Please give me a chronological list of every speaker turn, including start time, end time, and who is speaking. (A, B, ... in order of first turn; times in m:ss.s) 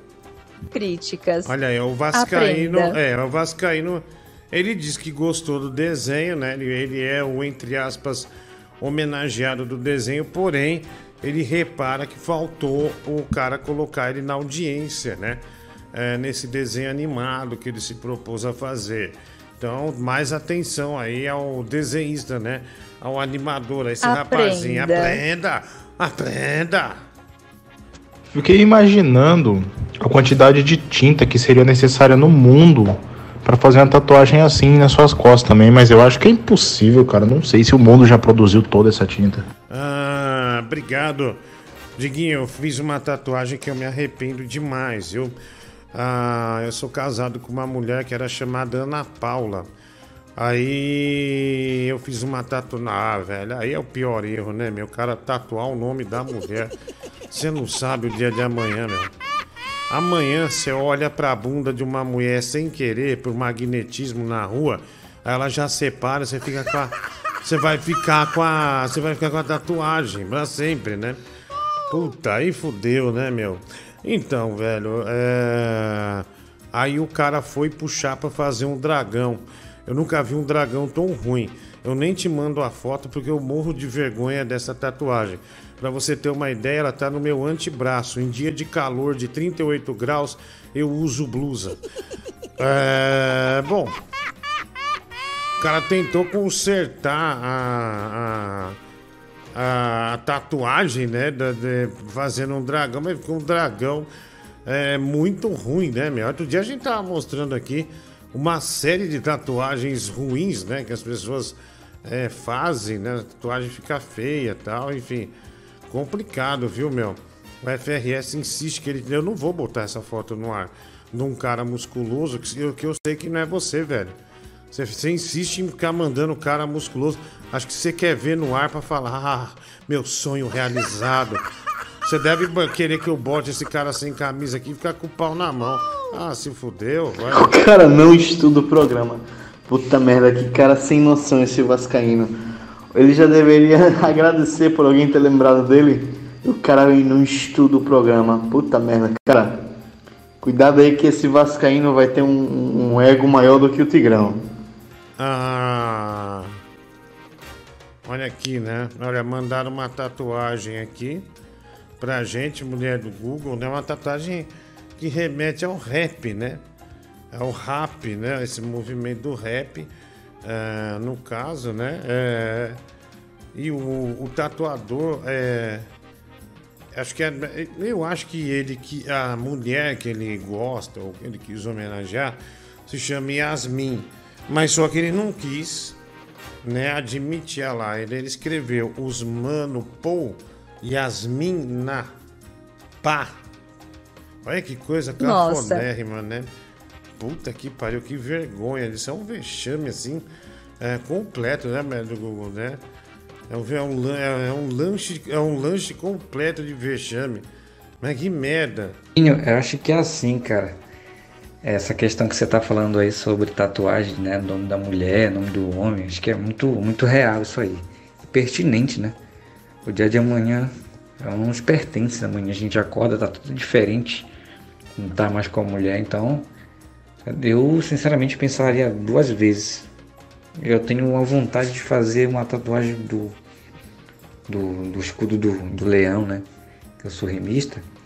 0:00.7-0:01.5 A
0:01.5-0:08.3 B
0:02.1-0:03.0 A
0:08.8-0:27.0 B
0:24.0-0:25.2 A
0:28.3-0:39.4 C
0:39.7-0:41.4 B
0:42.0-0:45.4 B
0:45.9-0:49.7 B
0:50.4-0:56.7 B
0:57.3-0:59.1 B
0:59.9-1:11.2 B
1:11.9-1:31.8 B
1:32.6-1:34.0 B
1:35.6-1:38.8 B
1:39.6-1:44.1 B
1:44.7-1:55.3 B
1:55.9-2:04.2 B
2:04.7-2:11.4 B
2:12.0-2:17.6 B
2:17.6-2:19.1 D
2:19.7-2:22.2 D
2:23.0-2:26.0 D
2:27.0-2:29.4 D
2:30.4-2:34.3 D
2:35.2-2:36.6 B
2:38.0-2:41.3 B
2:42.0-2:46.6 B
2:47.3-2:49.9 B
2:50.4-2:52.8 B
2:53.5-2:55.9 B
2:57.0-3:06.0 B
3:06.6-3:12.1 B
3:13.0-3:13.4 B
3:14.4-3:16.5 B
3:15.2-3:15.8 A
3:17.2-3:20.2 B
3:20.8-3:22.8 B
3:23.5-3:27.5 B
3:28.0-3:29.0 B
3:29.2-3:30.8 E
3:31.6-3:39.2 E
3:39.8-3:44.3 E
3:45.0-3:46.5 E
3:47.2-3:49.9 E
3:50.6-3:53.4 E
3:54.5-3:56.4 E
3:57.0-3:57.9 E